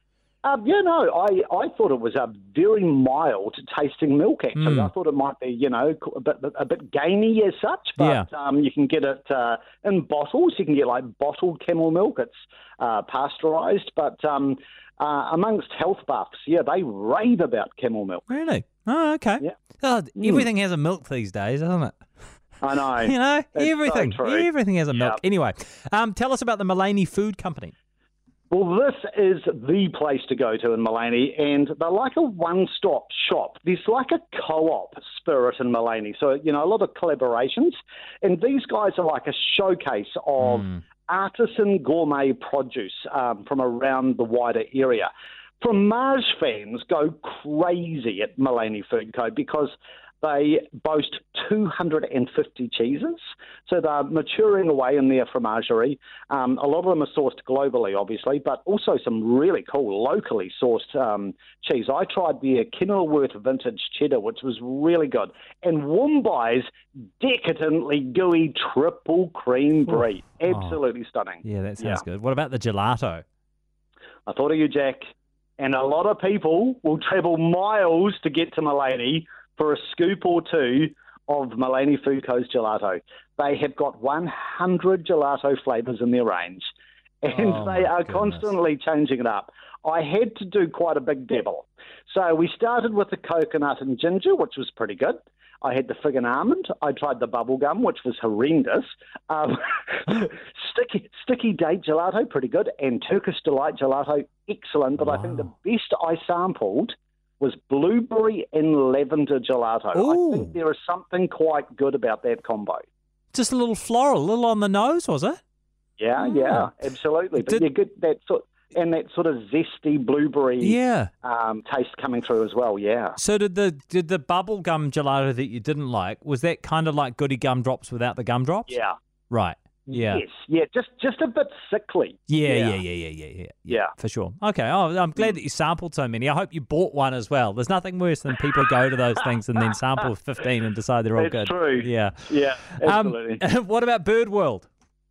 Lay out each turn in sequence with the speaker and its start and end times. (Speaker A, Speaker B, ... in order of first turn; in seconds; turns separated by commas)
Speaker A: 0.4-18.3, Speaker B: 4.6-4.9, Speaker B: 8.0-8.3, Speaker B: 18.3-22.0, Speaker A: 20.2-20.5, Speaker A: 22.6-25.2, Speaker B: 23.0-27.7, Speaker A: 28.5-45.1, Speaker B: 40.4-40.8, Speaker A: 45.6-66.7, Speaker A: 67.2-72.0, Speaker B: 70.5-70.8, Speaker B: 71.4-73.2, Speaker A: 74.3-86.7, Speaker A: 87.2-112.8, Speaker B: 87.3-88.5, Speaker B: 105.0-105.5, Speaker B: 109.9-110.5, Speaker B: 113.3-115.4, Speaker A: 116.0-123.2, Speaker B: 116.2-116.7, Speaker B: 117.4-117.6, Speaker B: 120.6-121.1, Speaker B: 123.2-128.7, Speaker A: 128.7-128.9, Speaker B: 129.3-130.2, Speaker A: 129.9-132.8, Speaker B: 132.3-144.7, Speaker A: 141.2-143.4